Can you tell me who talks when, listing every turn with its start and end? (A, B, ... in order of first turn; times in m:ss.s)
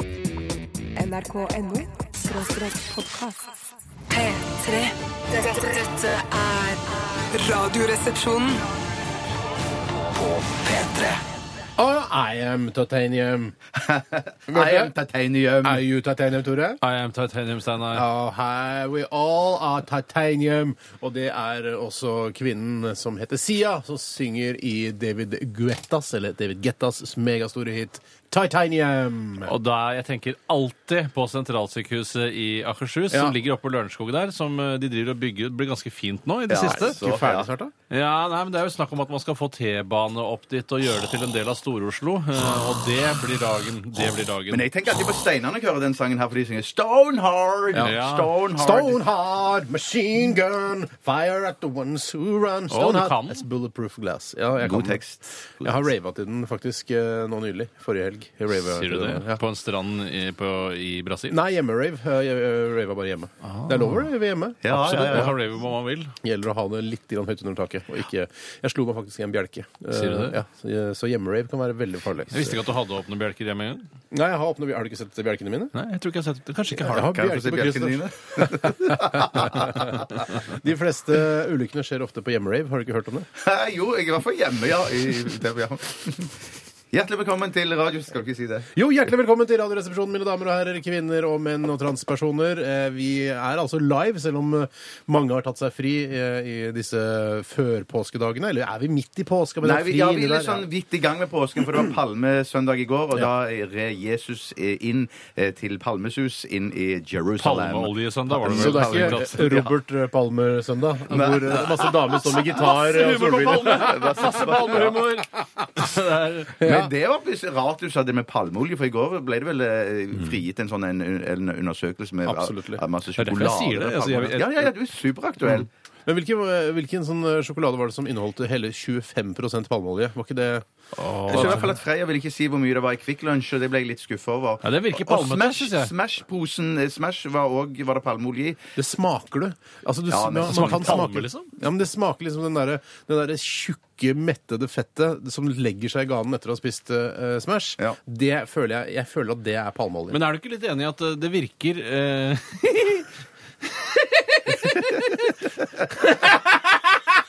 0:01.0-0:03.6 A
0:04.1-0:08.6 A
0:10.4-0:11.2 A
0:11.8-0:13.6 B
0:13.8-0:15.8 C
0:14.5-0:14.9 B
0:15.6-0:16.8 B
0:16.8-0:18.0 D
0:17.9-0:29.5 B
0:29.5-0:37.0 D
0:33.1-0:33.4 B
0:36.5-0:37.5 C
0:36.6-0:37.7 B
0:37.9-0:44.7 D
0:44.5-0:49.0 C
0:47.8-0:48.3 D
0:48.6-0:55.0 B
0:52.7-0:53.4 D
0:54.6-0:55.7 C
0:55.6-0:59.4 B
0:58.5-1:01.4 D
1:01.3-1:05.3 B
1:03.4-1:04.0 D
1:04.6-1:05.4 C
1:04.7-1:06.1 D
1:06.2-1:12.6 B
1:09.9-1:10.4 D
1:12.3-1:13.9 D
1:14.1-1:15.7 B
1:15.7-1:17.1 D
1:16.8-1:23.3 B
1:16.9-1:19.9 C
1:23.4-1:26.4 C
1:26.9-1:28.7 C
1:28.7-1:40.7 B
1:39.6-1:49.7 C
1:47.4-1:49.4 D
1:48.4-1:54.7 B
1:51.1-1:52.5 C
1:52.3-1:56.6 D
1:53.5-1:55.0 C
1:55.3-1:55.8 B
1:56.6-1:56.9 B
1:56.6-2:05.7 C
2:02.2-2:02.8 B
2:03.2-2:04.7 D
2:06.1-2:10.6 B
2:10.9-2:11.7 D
2:11.3-2:18.6 C
2:11.3-2:11.6 B
2:14.6-2:15.9 D
2:18.8-2:30.2 B
2:20.1-2:21.0 C
2:20.4-2:21.5 D
2:30.1-2:33.1 D
2:33.6-2:35.3 D